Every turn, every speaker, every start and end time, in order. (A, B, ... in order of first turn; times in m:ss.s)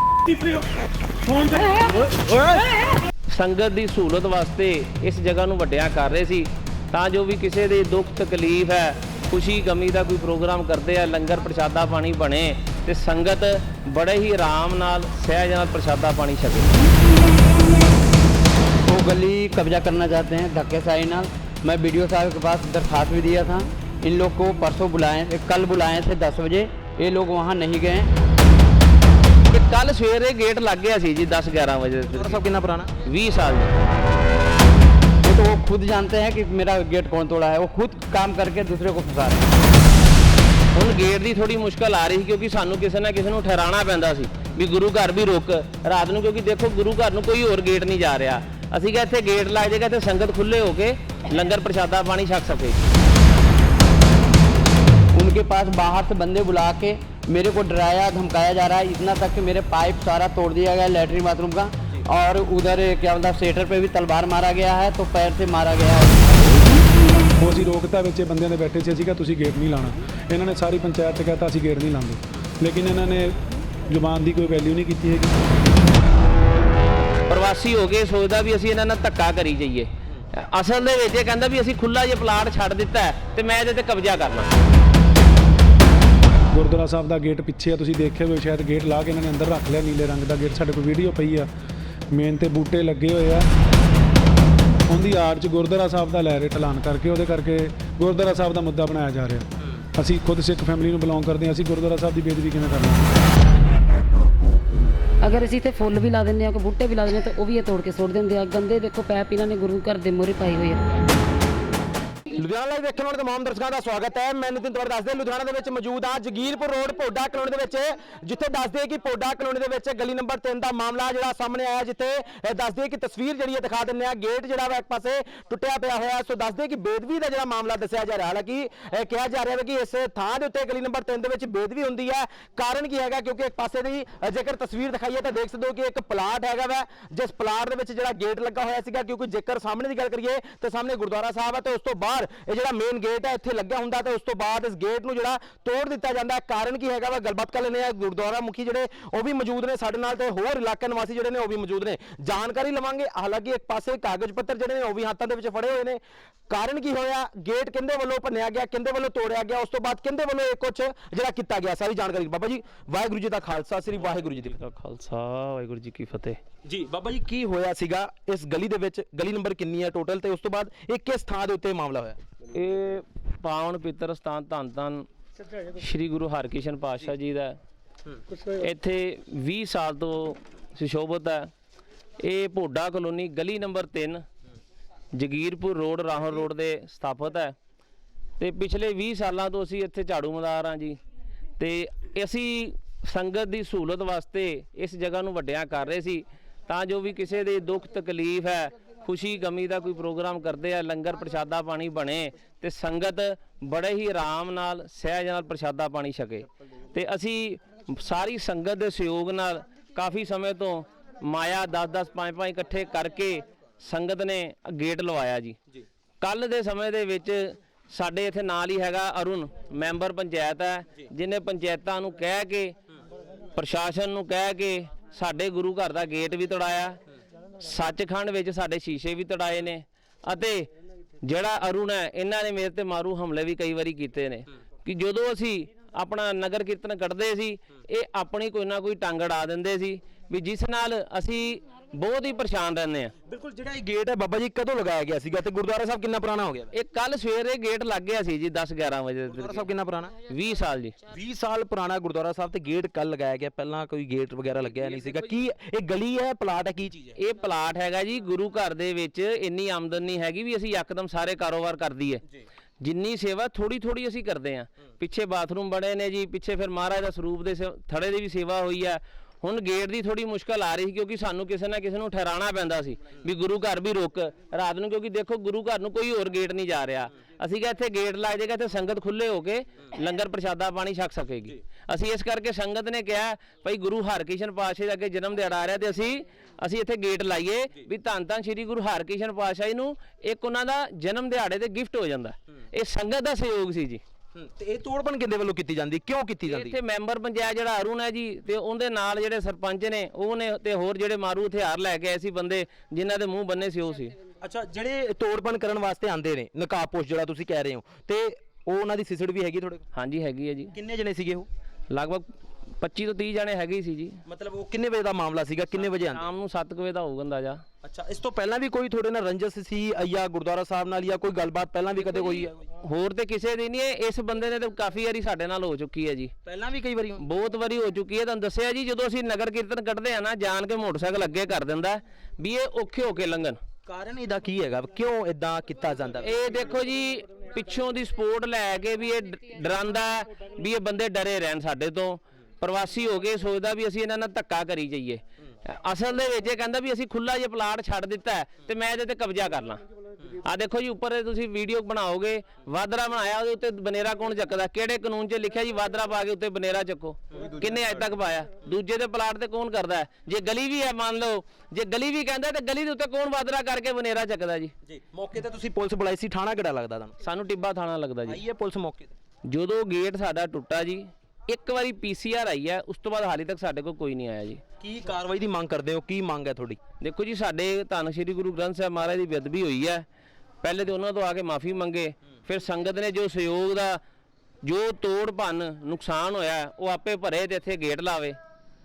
0:01.7-0:02.3 A
0:03.3-0:16.7 B
0:18.9-0:28.1 C
0:29.5-0:32.4 B
0:32.0-0:32.9 D
0:33.0-0:33.8 B
0:35.2-0:39.5 C
0:40.8-0:52.8 B
0:55.1-1:06.5 C
1:07.4-1:13.4 A
1:13.9-1:15.4 A
1:17.3-1:24.5 B
1:26.5-1:31.5 A
1:32.1-1:33.5 A
1:34.9-1:43.1 A
1:45.2-1:50.8 E
1:52.3-2:44.6 D
2:44.0-2:46.4 B
2:46.6-2:52.2 D
2:52.5-2:55.1 B
2:55.8-2:57.6 B
2:58.6-3:01.5 B
3:02.2-3:04.2 B
3:05.2-3:07.6 B
3:08.4-3:11.0 B
3:11.6-3:35.6 B
3:36.2-3:42.7 B
3:43.6-3:47.0 B
3:47.6-3:50.7 B
3:51.2-4:03.1 B
4:03.3-4:06.8 D
4:06.7-4:09.7 B
4:09.3-4:10.2 D
4:10.2-4:11.0 B
4:11.1-4:17.2 D
4:17.2-4:22.2 B
4:22.8-4:54.0 B
4:54.4-4:56.8 D
4:56.5-5:04.2 B
5:04.4-5:09.9 D
5:10.0-5:10.7 B
5:10.7-5:11.5 D
5:11.9-5:14.2 B
5:14.3-5:16.3 D
5:15.8-5:17.6 B
5:17.8-5:22.6 D
5:22.1-5:26.3 B
5:26.4-5:27.2 D
5:27.2-5:33.6 B
5:33.9-5:36.4 D
5:36.2-5:49.8 B
5:50.4-6:04.7 B
6:04.9-6:07.2 D
6:07.2-6:08.4 B
6:08.2-6:09.1 D
6:09.5-6:14.6 B
6:14.8-6:16.8 D
6:17.0-6:20.0 B
6:20.6-6:24.0 B
6:24.6-6:28.4 B